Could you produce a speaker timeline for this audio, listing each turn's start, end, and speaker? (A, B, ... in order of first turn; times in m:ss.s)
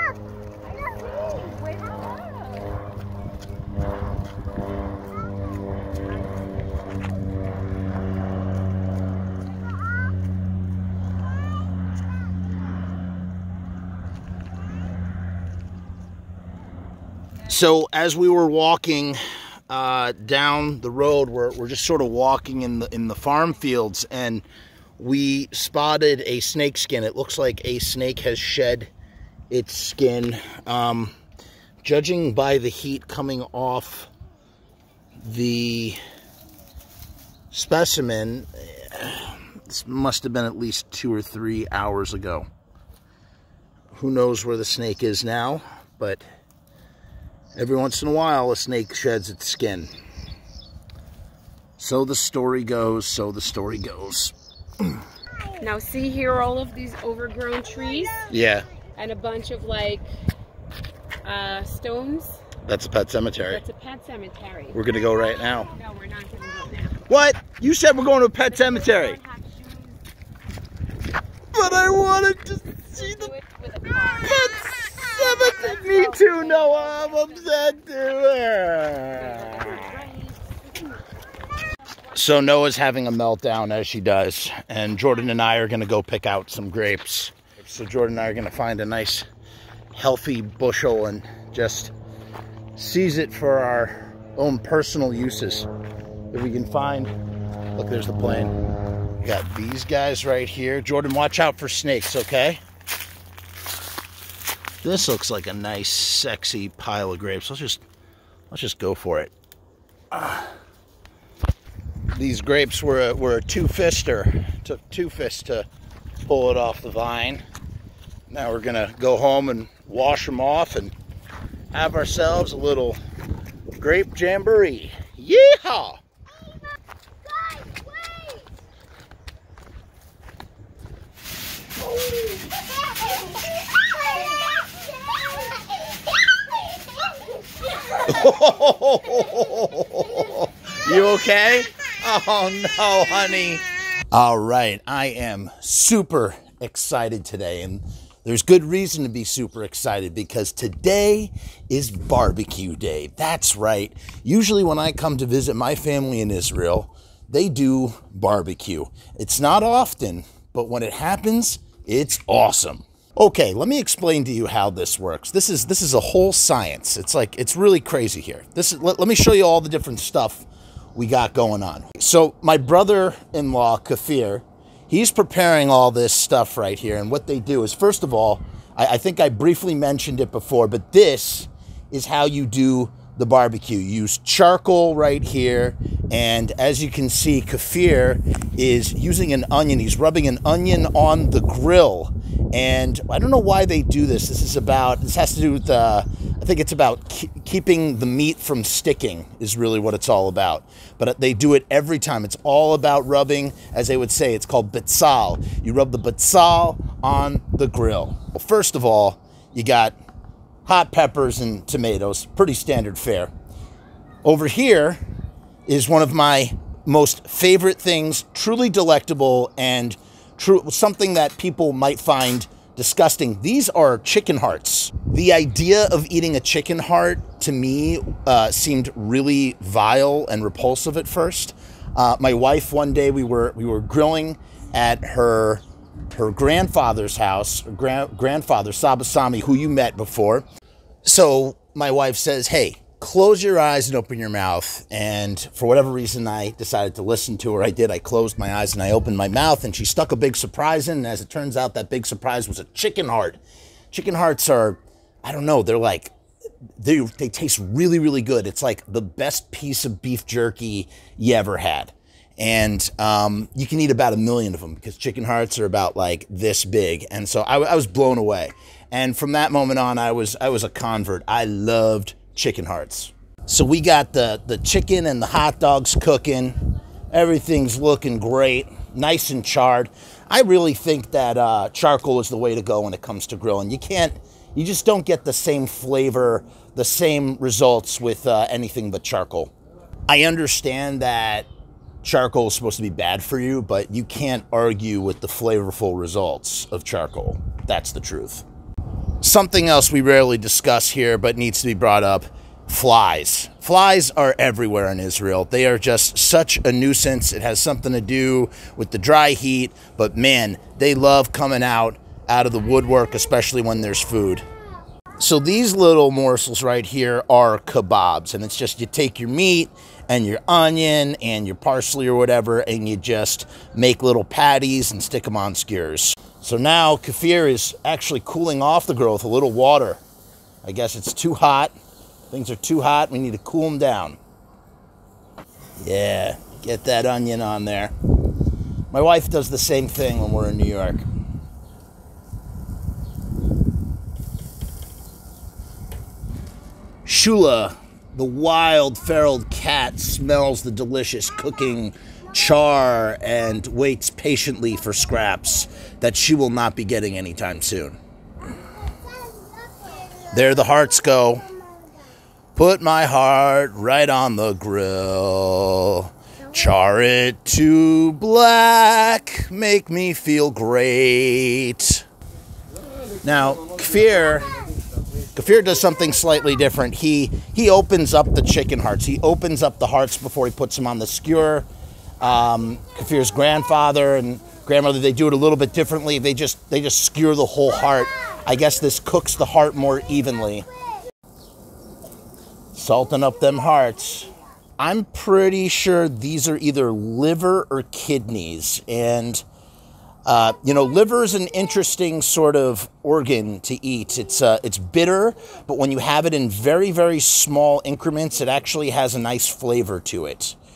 0:00.6-0:02.8 A
0:06.0-0:06.2 A
0:17.5-0:24.4 B
0:25.0-0:28.9 B
0:29.5-0:31.1 B
0:31.8-0:34.1 B
0:35.2-0:36.0 B
0:37.5-0:42.5 B
0:43.9-0:46.2 B
0:47.5-0:49.9 B
0:51.8-0:54.8 B
0:55.6-0:58.2 A
0:58.3-0:58.7 B
0:58.8-1:00.1 A
1:01.2-1:02.4 A
1:02.6-1:03.6 B
1:03.5-1:04.8 A
1:04.7-1:05.7 B
1:05.7-1:07.1 A
1:07.1-1:09.2 B
1:08.5-1:10.0 A
1:11.5-1:13.3 B
1:12.8-1:14.3 A
1:14.2-1:19.8 B
1:15.3-1:17.5 A
1:19.1-1:20.6 A
1:22.1-1:29.2 B
1:29.9-1:31.9 B
1:32.8-1:35.7 B
1:36.3-1:37.1 B
1:37.8-1:38.5 B
1:39.2-1:42.6 B
1:44.8-1:47.8 B
1:48.5-1:49.3 B
1:50.1-1:50.5 B
1:52.1-1:55.7 B
1:56.2-1:57.4 B
1:58.3-2:00.9 B
2:01.7-2:03.0 B
2:03.8-2:06.0 B
2:07.4-2:08.3 C
2:15.1-2:15.6 C
2:18.0-3:30.0 B
3:30.6-3:33.3 B
3:34.2-3:35.0 B
3:35.7-4:00.4 B
4:01.0-4:13.4 B
4:13.9-4:16.1 B
4:16.8-4:36.6 B
4:37.1-4:49.5 B
4:50.1-4:51.5 B
4:52.0-4:58.4 B
4:59.2-5:14.4 B
5:15.2-5:30.0 B
5:30.6-5:31.7 B
5:32.3-5:34.2 B
5:35.8-5:37.9 B
5:38.9-5:41.0 B
5:47.0-5:58.0 B
5:58.9-6:00.3 C
6:00.3-6:01.5 B
6:00.9-6:01.8 C
6:02.5-6:12.0 B
6:13.2-6:14.6 B
6:15.3-6:21.7 B
6:22.2-6:30.7 B
6:32.7-6:39.4 B
6:40.2-6:50.6 B